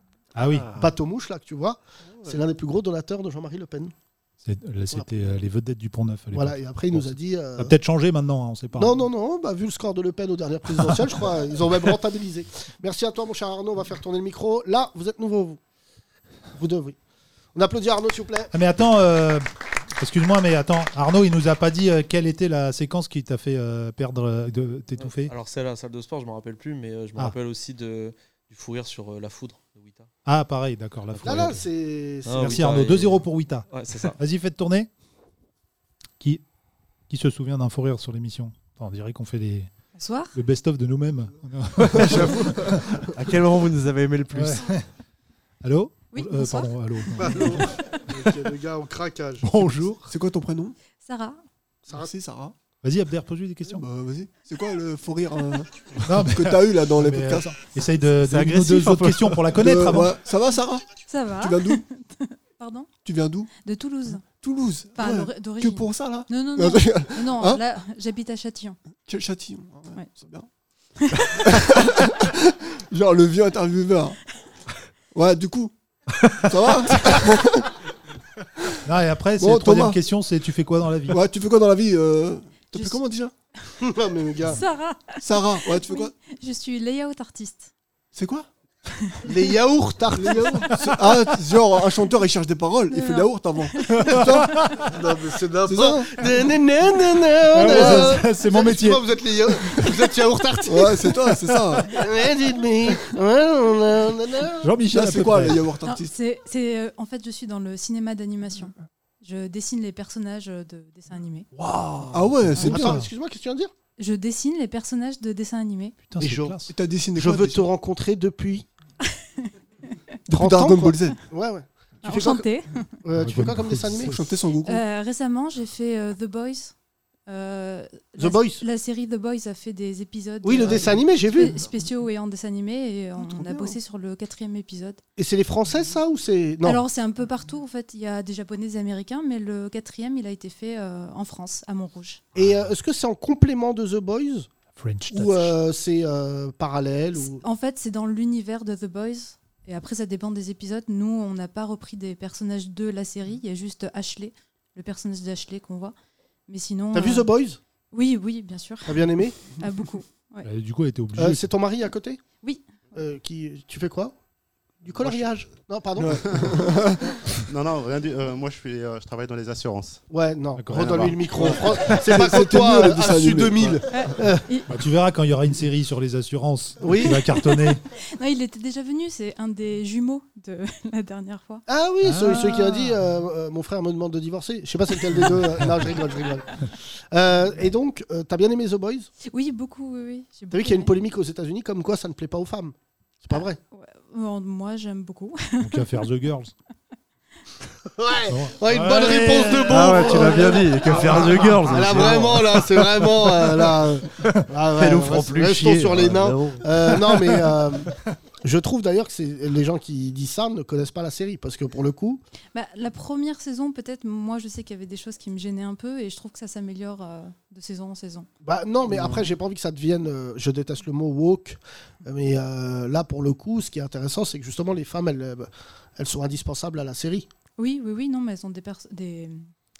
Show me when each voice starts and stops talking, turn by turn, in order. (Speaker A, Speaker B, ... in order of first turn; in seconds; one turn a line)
Speaker A: 0.3-0.9
Speaker B: 0.7-3.9
Speaker A: 4.4-9.0
Speaker B: 6.3-7.7
Speaker B: 8.8-15.6
Speaker A: 10.7-11.1
Speaker B: 16.6-16.9
Speaker B: 17.5-18.5
Speaker A: 18.5-19.4
Speaker A: 20.0-25.3
Speaker C: 25.0-30.1
Speaker A: 30.2-31.7
Speaker B: 31.2-32.8
Speaker C: 32.2-34.2
Speaker A: 32.3-34.9
Speaker A: 37.1-39.7
Speaker D: 40.0-40.3
Speaker A: 40.3-43.0
Speaker E: 41.9-42.8
Speaker F: 43.1-44.7
Speaker A: 44.3-44.8
Speaker A: 45.6-47.8
Speaker D: 46.1-46.7
Speaker B: 47.2-49.5
Speaker A: 49.4-50.1
Speaker E: 50.0-50.8
Speaker D: 51.0-51.4
Speaker E: 51.9-52.5
Speaker A: 52.8-53.8
Speaker E: 53.7-57.5
Speaker A: 56.0-60.2
Speaker F: 58.2-59.6
Speaker E: 59.5-61.8
Speaker D: 61.1-62.9
Speaker E: 63.0-63.5
Speaker D: 63.6-64.2
Speaker E: 64.2-67.6
Speaker D: 65.0-68.8
Speaker E: 69.0-70.5
Speaker D: 71.0-71.4
Speaker E: 71.4-74.2
Speaker E: 75.1-75.7
Speaker E: 76.4-77.7
Speaker A: 78.8-81.2
Speaker E: 79.4-80.0
Speaker E: 81.1-83.3
Speaker B: 83.8-84.6
Speaker D: 84.4-87.7
Speaker E: 85.2-86.1
Speaker E: 88.1-88.5
Speaker D: 89.0-89.3
Speaker B: 89.2-90.6
Speaker E: 90.1-94.5
Speaker A: 90.8-91.1
Speaker D: 92.9-94.5
Speaker A: 94.1-94.6
Speaker B: 94.9-101.1
Speaker E: 95.7-96.1
Speaker A: 97.5-99.0
Speaker E: 97.7-98.1
Speaker E: 100.7-101.9
Speaker B: 101.9-104.7
Speaker A: 104.6-105.6
Speaker E: 104.9-106.1
Speaker D: 105.8-111.5
Speaker E: 112.1-113.0
Speaker A: 112.5-113.1
Speaker B: 112.6-113.7
Speaker D: 114.0-116.0
Speaker A: 116.0-116.7
Speaker B: 116.2-116.5
Speaker E: 116.7-117.7
Speaker B: 117.2-118.7
Speaker E: 120.3-121.2
Speaker B: 120.3-122.5
Speaker D: 122.0-122.9
Speaker B: 123.0-124.2
Speaker A: 123.2-124.3
Speaker E: 124.0-124.8
Speaker D: 124.6-126.7
Speaker D: 127.3-135.0
Speaker B: 128.2-128.6
Speaker B: 130.4-131.6
Speaker B: 135.2-136.8
Speaker D: 136.6-142.2
Speaker B: 142.3-144.5
Speaker A: 144.8-145.6
Speaker B: 145.1-147.4
Speaker D: 147.2-155.9
Speaker D: 156.5-157.3
Speaker B: 156.9-157.6
Speaker D: 157.9-159.0
Speaker B: 158.8-159.4
Speaker D: 159.6-160.5
Speaker A: 160.4-161.5
Speaker B: 161.2-162.2
Speaker D: 162.4-162.8
Speaker B: 162.9-164.1
Speaker B: 164.8-166.6
Speaker E: 166.0-167.1
Speaker G: 167.5-170.0
Speaker B: 170.1-174.4
Speaker A: 170.6-171.2
Speaker G: 170.8-171.2
Speaker E: 171.3-174.1
Speaker D: 173.9-174.7
Speaker A: 174.7-177.8
Speaker B: 176.8-177.2
Speaker D: 177.3-181.6
Speaker B: 181.7-186.6
Speaker A: 182.0-183.0
Speaker B: 187.1-189.1
Speaker D: 189.2-190.9
Speaker B: 190.5-193.6
Speaker D: 193.3-195.9
Speaker A: 195.6-196.5
Speaker B: 197.9-207.9
Speaker A: 198.3-202.5
Speaker F: 199.7-202.4
Speaker F: 204.7-206.9
Speaker B: 208.4-212.2
Speaker D: 212.5-218.3
Speaker B: 218.4-227.3
Speaker E: 218.9-219.2
Speaker D: 227.6-229.5